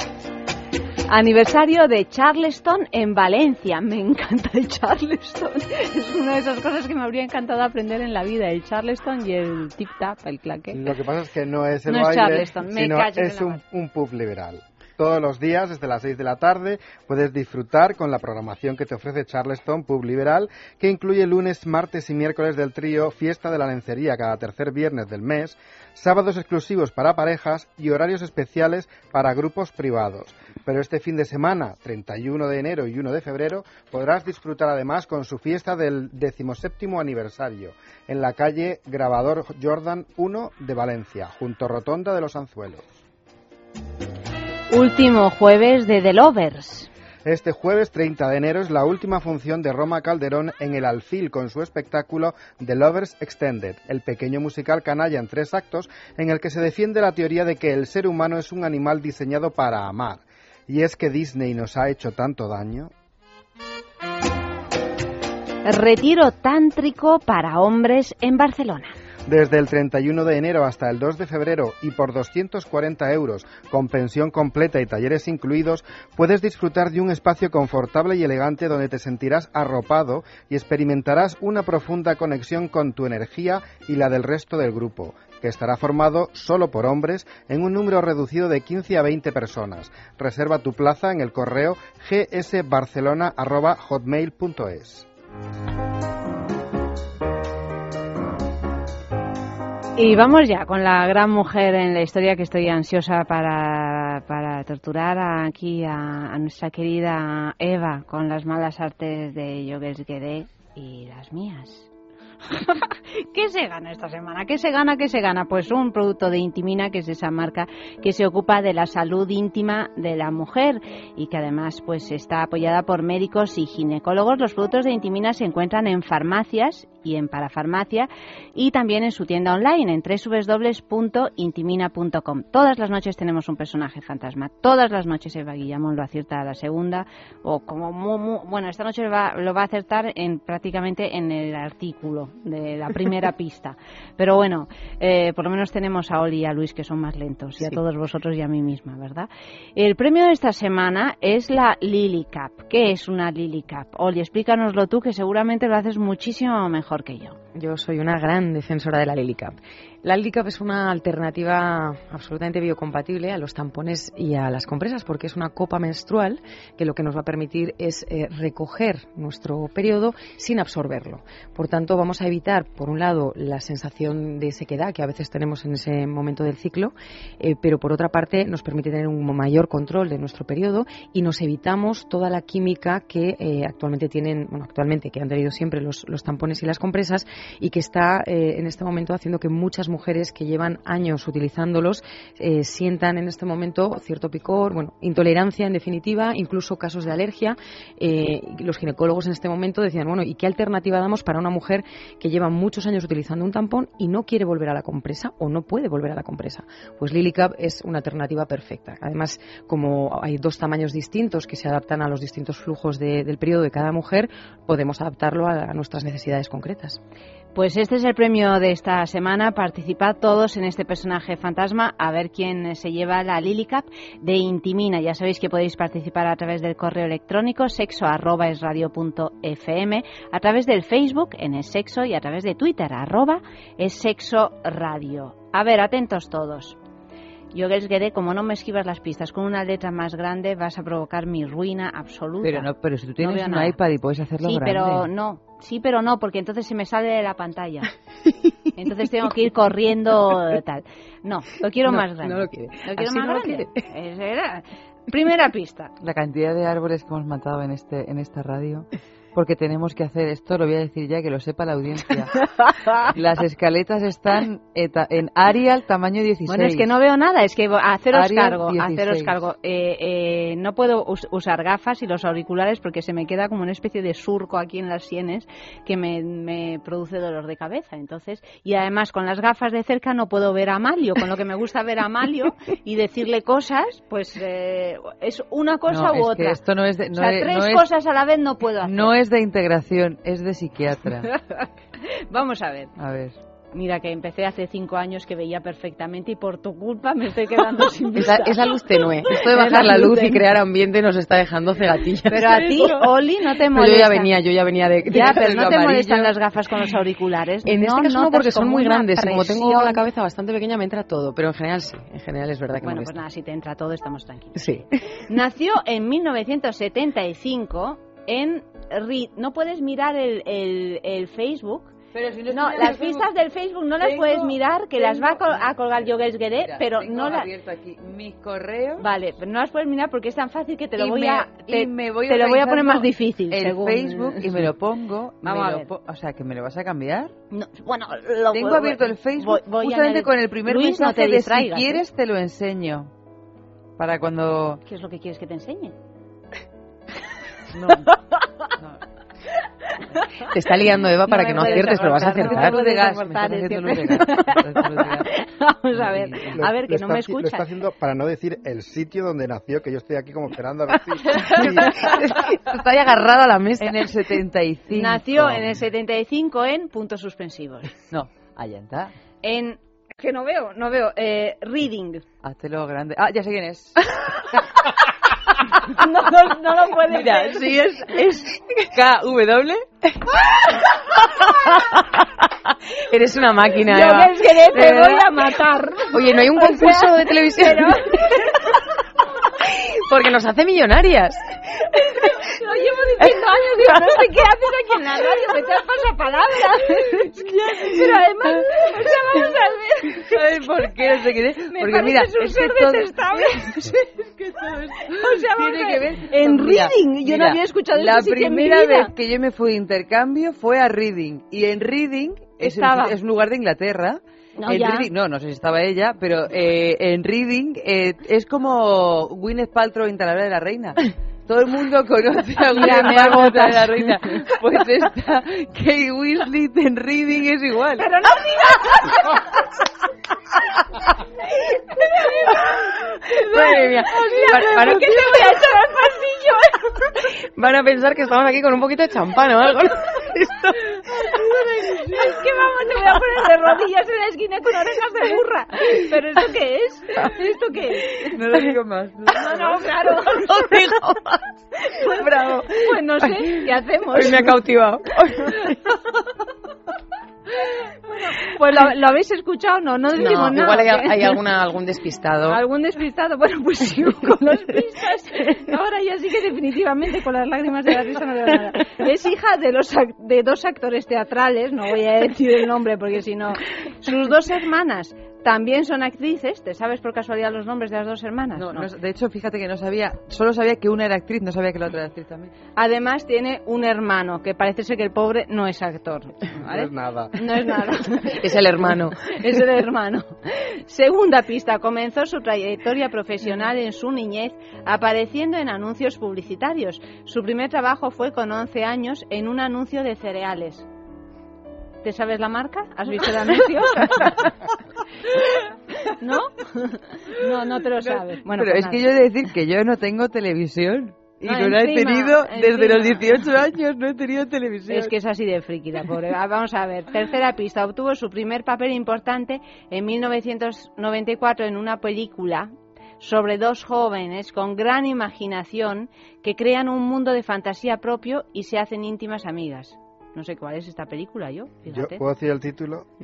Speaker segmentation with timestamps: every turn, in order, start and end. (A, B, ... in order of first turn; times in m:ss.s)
0:01.1-0:10.8 A
0:10.7-0:42.8 B
0:11.9-0:13.6 A
0:44.7-0:46.9 A
0:47.2-1:02.9 B
1:05.6-1:09.0 A
1:09.3-1:35.1 B
1:40.0-1:51.9 A
1:52.5-2:37.4 A
2:37.5-3:37.0 C
3:37.6-3:56.8 A
3:57.5-4:03.8 A
4:02.4-4:05.1 D
4:04.4-4:07.9 A
4:08.3-4:08.6 C
4:08.8-4:15.9 A
4:11.9-4:13.8 C
4:16.0-4:22.4 D
4:23.1-4:26.9 D
4:26.5-4:46.6 A
4:28.1-4:29.3 D
4:45.9-4:47.9 D
4:47.2-4:49.1 A
4:48.8-4:51.3 D
4:51.4-4:52.9 A
4:53.0-4:53.4 D
4:53.7-4:58.6 A
4:58.2-5:03.0 C
4:59.3-5:00.4 A
5:02.3-5:04.3 A
5:03.7-5:05.4 C
5:05.1-5:06.3 D
5:05.1-5:10.0 A
5:07.6-5:13.2 C
5:12.8-5:21.9 A
5:14.6-5:14.9 C
5:22.1-5:23.3 D
5:22.5-5:27.5 A
5:24.0-5:29.1 D
5:29.0-5:34.7 A
5:31.0-5:37.3 D
5:35.4-5:35.9 A
5:37.5-5:42.0 A
5:38.5-5:43.1 D
5:44.0-5:44.8 D
5:44.9-5:46.0 A
5:47.7-5:48.2 D
5:48.8-5:49.0 D
5:50.5-5:52.8 C
5:51.3-5:57.7 A
5:51.4-5:55.4 D
5:55.9-5:56.6 D
5:56.6-6:02.1 B
6:01.3-6:01.7 A
6:01.3-6:04.1 C
6:03.8-6:05.8 D
6:04.9-6:07.9 A
6:08.1-6:09.1 D
6:09.4-6:12.2 A
6:12.4-6:14.6 D
6:16.0-6:17.6 A
6:17.1-6:19.8 D
6:21.5-6:22.2 C
6:23.0-6:24.4 C
6:23.9-6:28.2 A
6:26.1-6:28.5 C
6:29.6-6:31.9 C
6:32.6-6:40.2 A
6:33.8-6:34.1 C
6:37.5-6:39.0 D
6:40.2-6:43.8 D
6:41.8-6:44.0 A
6:44.4-7:08.1 D
6:45.2-6:49.1 A
6:52.6-6:53.2 A
6:54.6-6:55.1 A
7:02.8-7:04.1 A
7:08.0-7:09.1 A
7:12.2-7:12.6 A
7:13.3-7:16.8 A
7:13.4-7:15.6 C
7:17.6-7:20.9 C
7:21.4-7:22.1 D
7:22.2-7:28.4 A
7:28.2-7:29.9 D
7:29.6-7:30.5 A
7:30.4-7:31.4 C
7:31.9-7:34.6 A
7:32.3-7:32.7 C
7:34.1-7:35.8 C
7:38.4-7:41.4 A
7:40.1-7:42.6 C
7:42.5-7:58.9 A
7:58.6-8:02.5 D
8:02.8-8:20.9 A
8:06.5-8:07.4 B
8:08.3-8:09.2 C
8:22.0-8:24.5 A
8:26.1-8:29.0 A
8:28.5-8:35.1 D
8:31.4-8:33.4 A
8:34.9-8:52.2 A
8:51.9-8:53.1 B